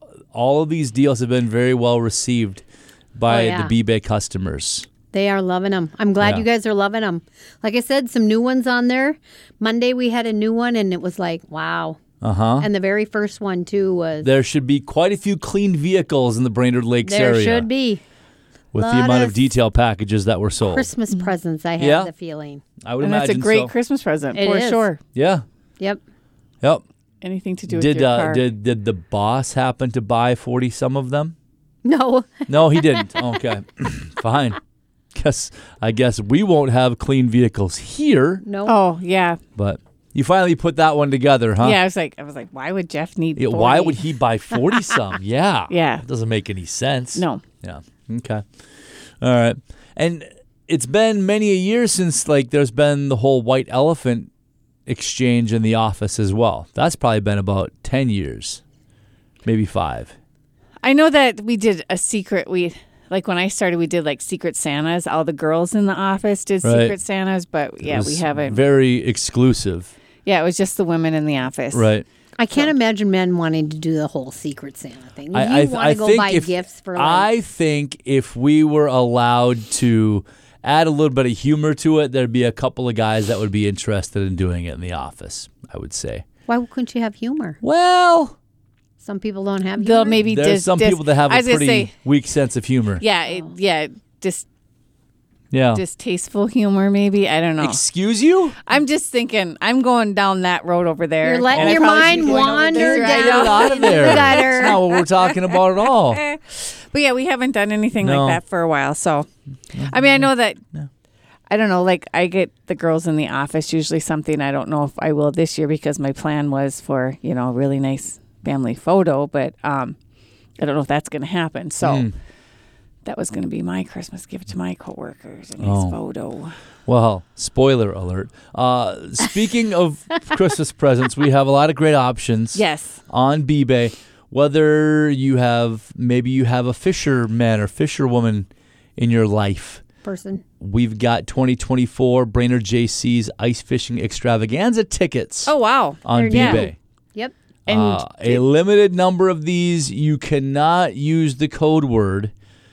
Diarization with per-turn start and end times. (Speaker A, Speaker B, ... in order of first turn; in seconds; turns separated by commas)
Speaker A: 0.3-4.9, Speaker B: 3.3-3.7, Speaker B: 5.1-12.0, Speaker A: 6.2-6.5, Speaker A: 12.2-12.7, Speaker B: 12.6-14.3, Speaker A: 14.2-17.7, Speaker B: 17.0-18.0, Speaker A: 18.7-20.9, Speaker B: 18.8-19.5, Speaker B: 20.6-22.6, Speaker A: 21.8-22.1, Speaker A: 22.9-23.7, Speaker C: 23.0-25.0, Speaker B: 24.3-24.8, Speaker A: 25.1-25.4, Speaker C: 27.2-28.4, Speaker A: 27.7-31.3, Speaker B: 31.8-33.2, Speaker A: 32.5-34.6, Speaker A: 35.1-38.4, Speaker B: 38.4-38.8, Speaker C: 38.6-39.4, Speaker A: 39.5-41.8, Speaker C: 41.6-44.0, Speaker A: 43.4-48.5, Speaker C: 45.7-46.0, Speaker C: 47.1-47.4, Speaker A: 49.2-54.3, Speaker A: 54.9-58.6, Speaker A: 59.4-60.1, Speaker C: 60.8-68.6, Speaker A: 66.6-66.9, Speaker A: 67.8-69.9, Speaker C: 70.2-71.9, Speaker A: 71.7-72.0, Speaker B: 72.4-77.3, Speaker A: 75.3-86.2, Speaker B: 86.5-87.6, Speaker A: 87.6-88.3, Speaker B: 89.0-90.2, Speaker C: 89.8-91.9, Speaker A: 90.2-93.0, Speaker C: 93.0-94.5, Speaker A: 95.5-95.8, Speaker C: 95.7-97.8, Speaker A: 97.6-98.6, Speaker C: 98.6-105.5, Speaker B: 101.2-104.8, Speaker A: 101.5-106.2, Speaker C: 106.1-109.3, Speaker A: 108.0-108.4, Speaker A: 109.7-110.9, Speaker C: 109.8-110.6, Speaker C: 111.5-120.0, Speaker C: 120.6-122.1, Speaker A: 121.8-122.1, Speaker C: 123.0-126.6, Speaker A: 125.6-126.0, Speaker A: 126.9-139.8, Speaker C: 132.5-133.0, Speaker B: 140.0-140.4, Speaker A: 140.6-145.5, Speaker C: 145.4-146.7, Speaker A: 146.0-146.8, Speaker B: 146.1-147.3, Speaker C: 147.7-148.4, Speaker A: 147.7-152.3